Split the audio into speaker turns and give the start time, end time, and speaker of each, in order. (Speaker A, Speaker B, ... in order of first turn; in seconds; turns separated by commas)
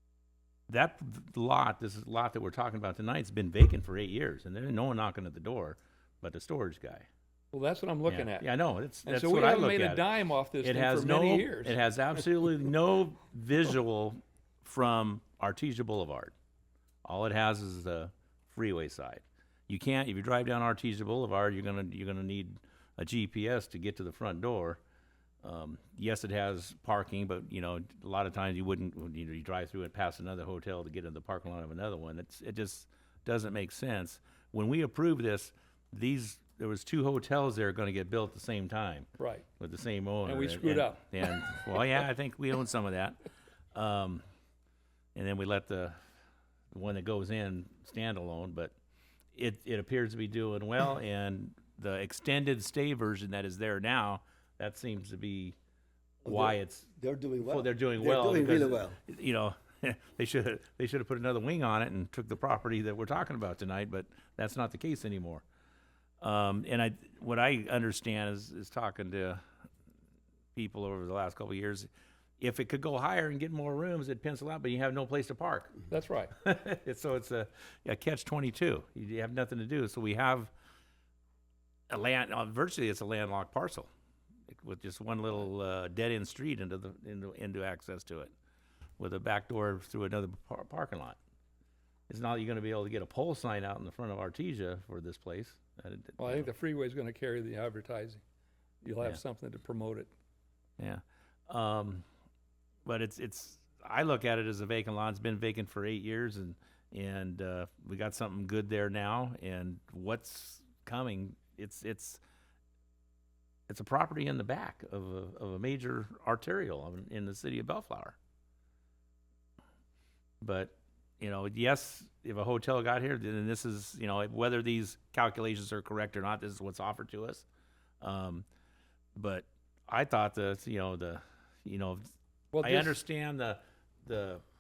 Speaker A: 0.7-7.1, Speaker B: 7.5-8.5, Speaker A: 8.1-10.1, Speaker B: 9.0-11.8, Speaker A: 10.6-16.3, Speaker A: 17.0-24.8, Speaker A: 25.4-39.1, Speaker B: 39.2-39.5, Speaker A: 39.6-43.2, Speaker B: 40.2-41.5, Speaker A: 43.7-44.2, Speaker A: 45.1-46.0, Speaker A: 46.7-48.7, Speaker A: 49.3-55.5, Speaker A: 56.2-56.9, Speaker C: 56.2-59.0, Speaker A: 57.4-65.4, Speaker A: 66.2-69.4, Speaker A: 70.5-71.9, Speaker A: 72.4-75.9, Speaker B: 75.9-76.3, Speaker A: 76.4-80.5, Speaker A: 81.9-83.9, Speaker A: 84.5-88.3, Speaker A: 89.0-91.2, Speaker A: 92.1-96.5, Speaker B: 96.2-98.2, Speaker B: 98.8-100.1, Speaker A: 100.8-102.0, Speaker A: 102.8-112.2, Speaker A: 113.7-118.2, Speaker A: 120.4-127.4, Speaker A: 128.0-128.4, Speaker A: 129.2-132.0, Speaker B: 132.5-133.0, Speaker A: 132.6-134.4